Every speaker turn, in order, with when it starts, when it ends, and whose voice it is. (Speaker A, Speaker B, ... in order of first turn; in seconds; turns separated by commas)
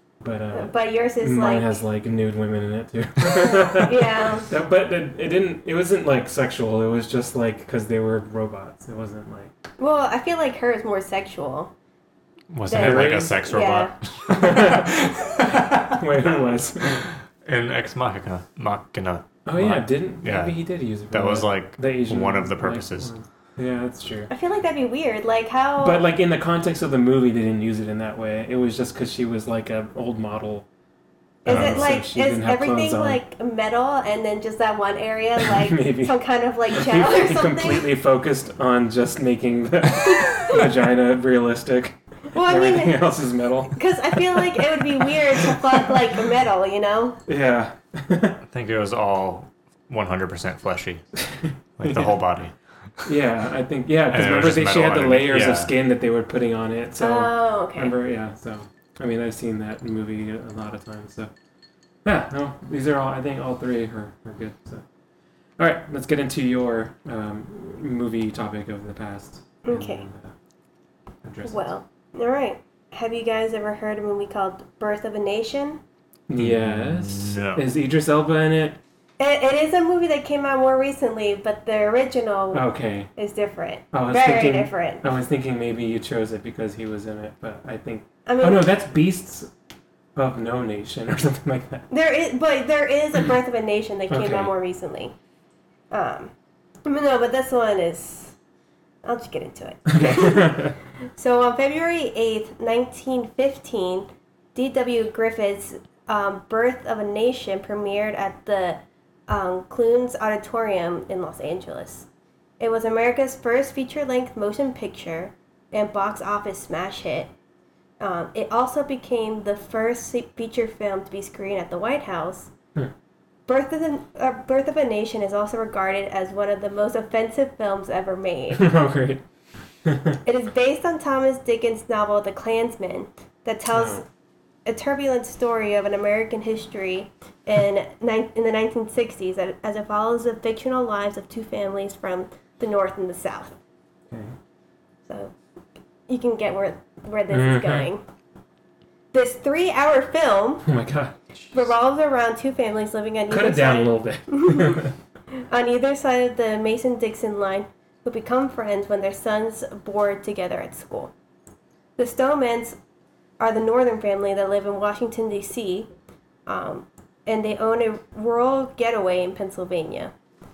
Speaker A: 0.2-9.5, Speaker B: 0.5-1.8, Speaker B: 3.4-4.5, Speaker B: 9.8-11.7, Speaker C: 12.5-16.0, Speaker A: 12.6-13.4, Speaker B: 12.7-13.9, Speaker A: 14.3-17.1, Speaker C: 16.9-23.1, Speaker A: 19.4-24.3, Speaker B: 24.3-26.1, Speaker A: 25.8-30.7, Speaker B: 31.4-37.9, Speaker A: 31.4-33.2, Speaker C: 31.5-31.9, Speaker A: 35.4-36.2, Speaker A: 36.7-44.8, Speaker B: 42.3-43.1, Speaker B: 43.7-47.2, Speaker A: 47.3-48.4, Speaker C: 48.5-51.0, Speaker A: 51.4-52.2, Speaker C: 51.8-53.1, Speaker A: 53.0-61.3, Speaker C: 54.1-55.7, Speaker B: 57.0-58.0, Speaker A: 62.0-64.8, Speaker A: 65.6-70.3, Speaker B: 69.6-70.0, Speaker A: 71.2-71.7, Speaker B: 71.4-75.8, Speaker A: 76.3-78.8, Speaker C: 76.3-77.7, Speaker B: 79.2-85.1, Speaker A: 82.5-83.1, Speaker A: 83.9-89.5, Speaker B: 88.2-88.7, Speaker A: 90.2-91.9, Speaker B: 91.9-95.1, Speaker A: 94.1-94.5, Speaker B: 95.9-96.3, Speaker B: 96.8-98.3, Speaker B: 99.0-112.1, Speaker A: 99.9-100.8, Speaker B: 112.6-117.3, Speaker B: 118.0-122.5, Speaker B: 123.5-128.7, Speaker A: 128.5-129.2, Speaker A: 129.8-130.2, Speaker B: 130.2-134.1, Speaker A: 133.7-134.0, Speaker B: 134.7-143.6, Speaker B: 145.1-145.3, Speaker B: 146.1-148.0, Speaker A: 147.3-147.9, Speaker B: 149.1-150.7, Speaker A: 150.6-151.7, Speaker B: 151.5-161.1, Speaker A: 153.3-154.9, Speaker B: 162.0-162.8, Speaker B: 163.4-165.9, Speaker B: 166.4-170.1